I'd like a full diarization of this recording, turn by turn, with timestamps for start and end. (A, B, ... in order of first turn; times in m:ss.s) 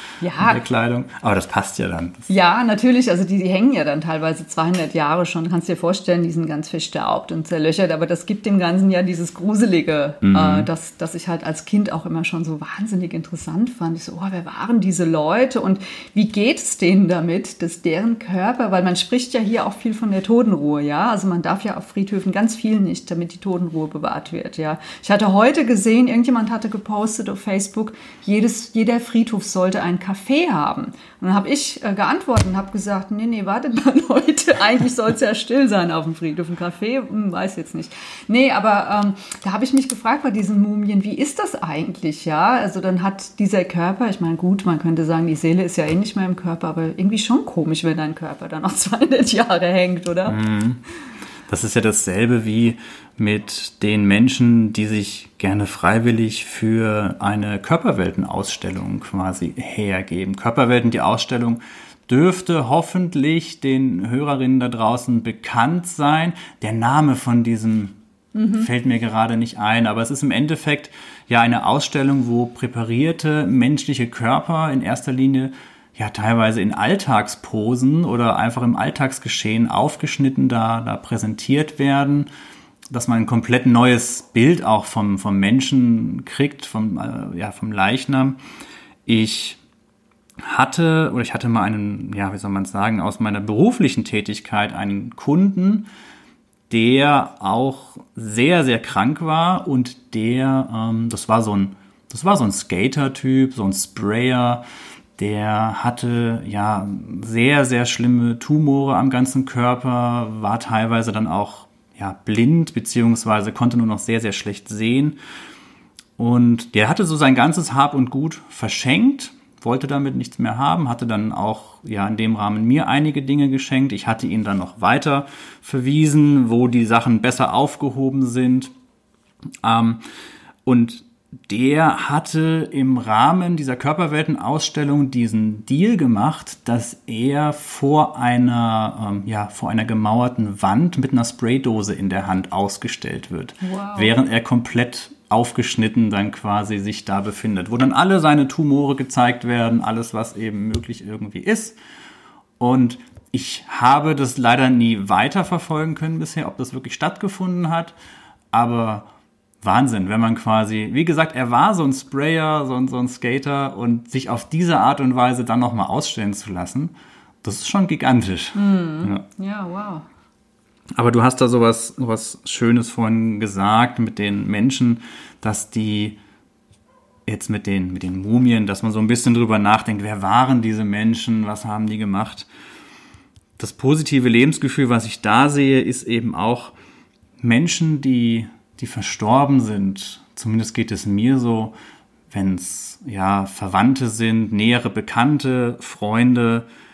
0:00.2-0:00.6 A
0:00.4-0:02.3 B
0:02.3-0:50.4 A
0:10.2-0:10.7 B
0:50.3-0:50.8 B
0:51.5-1:08.0 B
1:08.4-1:08.7 A
1:08.6-1:22.3 B
1:22.9-1:28.4 B
1:29.1-1:29.6 B
1:30.4-1:35.9 B
1:36.7-1:44.6 B
1:45.2-1:55.2 B
1:56.2-2:08.7 B
2:09.6-2:10.0 B
2:10.6-2:31.8 B
2:23.6-2:24.1 A
2:32.6-2:38.0 B
2:38.5-2:39.1 B
2:39.6-2:49.2 B
2:48.5-2:50.1 A
2:51.0-2:56.2 B
2:57.3-3:02.5 B
3:03.6-3:06.7 B
3:07.4-3:11.7 B
3:12.3-3:16.7 B